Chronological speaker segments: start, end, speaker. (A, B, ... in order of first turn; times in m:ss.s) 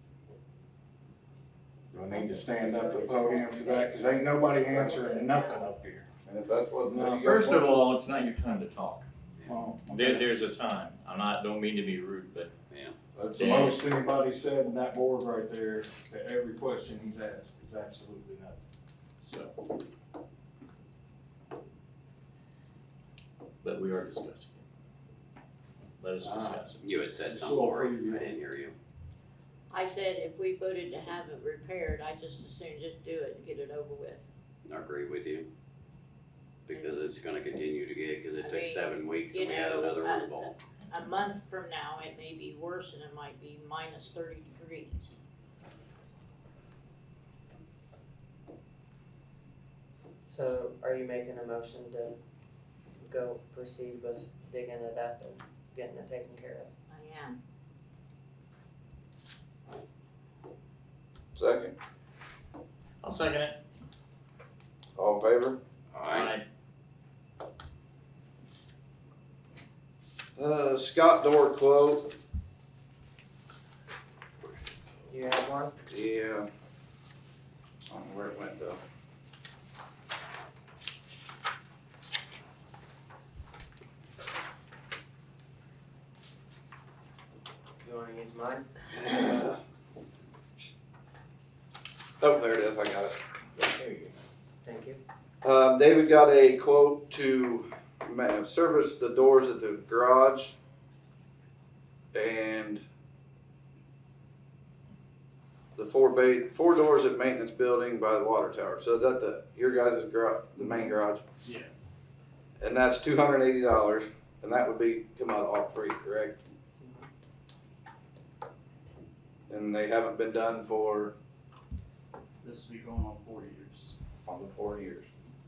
0:01.9-0:06.1 A
0:02.1-0:05.6 B
0:06.2-0:07.6 C
0:06.8-0:07.7 A
0:07.2-0:09.1 D
0:09.4-0:10.3 A
0:09.9-0:12.5 D
0:12.7-0:12.9 E
0:13.1-0:18.6 A
0:13.4-0:13.8 D
0:19.2-0:19.5 D
0:23.6-0:24.6 D
0:26.0-0:26.9 D
0:26.2-0:26.6 A
0:26.8-0:28.7 E
0:27.2-0:28.3 A
0:29.7-0:34.3 B
0:34.6-0:35.5 E
0:36.7-0:40.6 E
0:38.4-0:45.2 B
0:50.3-0:52.2 F
0:53.0-0:56.7 F
0:56.9-0:57.4 B
1:01.3-1:01.7 C
1:03.0-1:03.6 D
1:05.0-1:05.6 C
1:05.9-1:06.3 E
1:06.0-1:06.4 D
1:10.4-1:12.1 C
1:15.1-1:15.7 F
1:15.9-1:16.5 C
1:17.9-1:18.8 C
1:27.8-1:29.1 F
1:29.0-1:29.6 C
1:32.2-1:33.2 C
1:33.6-1:34.1 D
1:34.6-1:35.0 F
1:35.4-1:40.5 C
1:42.1-1:42.8 C
1:45.7-1:51.2 C
1:50.6-1:51.7 G
1:52.6-1:56.4 C
1:56.8-1:57.1 F
1:59.5-2:01.1 C
2:02.4-2:04.0 G
2:04.2-2:05.1 C